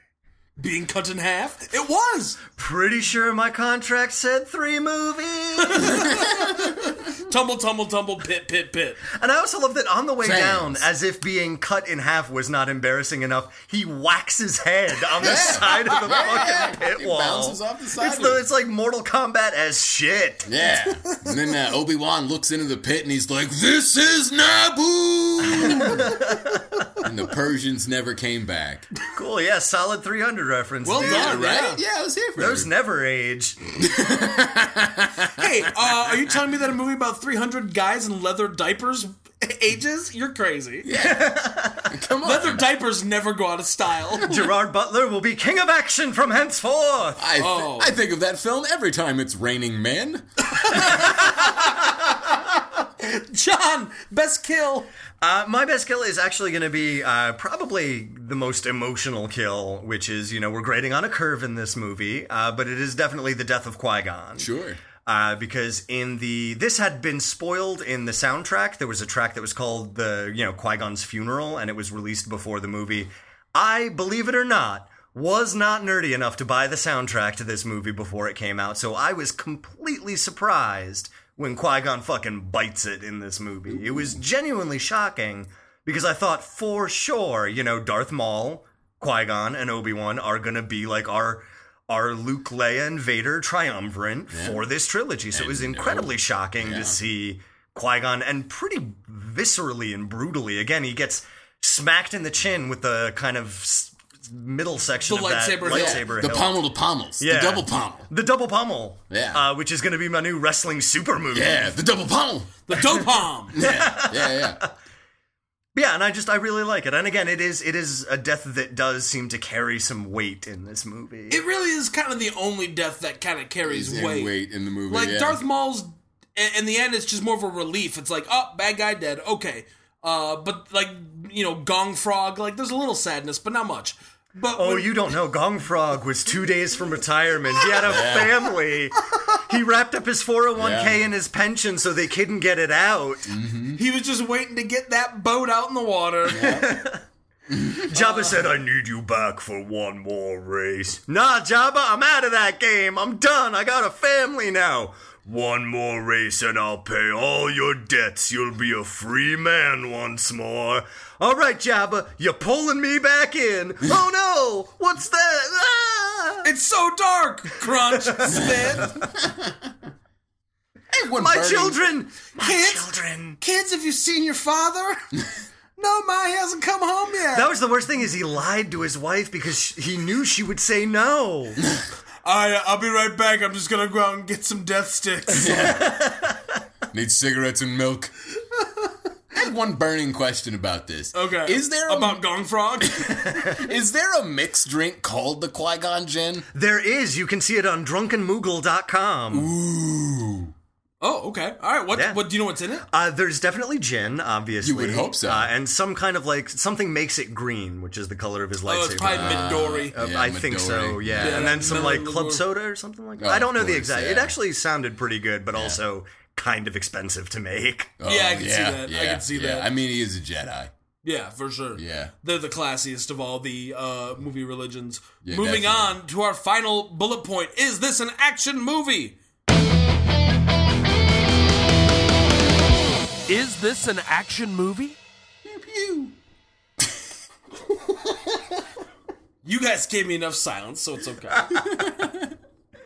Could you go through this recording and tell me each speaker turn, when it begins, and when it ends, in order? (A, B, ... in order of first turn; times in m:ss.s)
0:00.6-0:02.4 A
0:02.6-0:06.4 B
0:05.6-0:09.0 A
0:09.1-0:20.5 B
0:10.2-0:10.8 C
0:15.2-0:18.4 C
0:20.4-0:26.1 C
0:25.5-0:26.8 B
0:25.8-0:26.3 A
0:27.0-0:28.9 C
0:29.1-0:31.4 B
0:30.8-0:31.8 A
0:31.0-0:32.7 C
0:32.4-0:33.6 B
0:33.8-0:35.4 C
0:35.3-0:40.9 A
0:40.8-0:42.7 C
0:40.9-0:42.0 B
0:42.2-0:44.4 A
0:44.2-0:47.2 B
0:47.2-0:51.3 C
0:47.4-0:48.0 A
0:50.5-0:54.9 A
0:55.2-1:04.5 B
1:04.4-1:04.8 C
1:05.0-1:46.6 B
1:34.3-1:34.6 C
1:35.3-1:37.0 C
1:45.1-1:46.1 A
1:45.6-1:48.1 C
1:47.2-1:51.7 B
1:49.1-1:49.4 C
1:51.3-1:52.7 C
1:52.7-1:53.6 A
1:53.5-1:54.6 C
1:53.6-1:54.7 B
1:55.7-2:01.4 B
2:01.3-2:04.3 A
2:03.7-2:05.4 C
2:04.9-2:15.0 A
2:14.6-2:23.3 B
2:17.8-2:18.4 C
2:20.6-2:21.0 C
2:23.3-2:23.8 C
2:23.8-2:26.6 A
2:26.3-2:26.8 C
2:26.3-2:27.0 B
2:27.5-2:27.9 C
2:27.8-2:46.5 B
2:27.9-2:28.5 A
2:46.4-2:49.0 A
2:48.0-2:49.0 B
2:49.2-2:49.6 C
2:50.9-2:51.8 C
2:51.1-2:53.4 B
2:52.4-2:52.9 A
2:53.4-2:55.0 A
2:55.8-2:57.5 A
2:57.3-3:01.6 B
3:02.2-3:05.7 A
3:05.3-3:06.3 C
3:05.7-3:06.4 B
3:06.9-3:08.1 C
3:09.3-3:12.2 C
3:11.1-3:13.3 A
3:12.9-3:16.5 C
3:16.5-3:19.5 B
3:19.3-3:20.5 C
3:21.0-3:22.8 A
3:21.9-3:22.2 B
3:22.8-3:38.0 B
3:24.6-3:25.5 C
3:28.6-3:30.0 A
3:29.0-3:32.0 C
3:31.2-3:32.4 A
3:33.2-3:34.3 C
3:35.5-3:35.8 C
3:38.0-3:40.7 C
3:38.0-3:39.7 A
3:41.0-3:49.2 A
3:41.8-3:42.1 C
3:45.2-3:46.0 C
3:53.3-3:55.0 A
3:55.4-3:56.1 C
3:59.4-4:01.7 A
4:01.5-4:02.3 C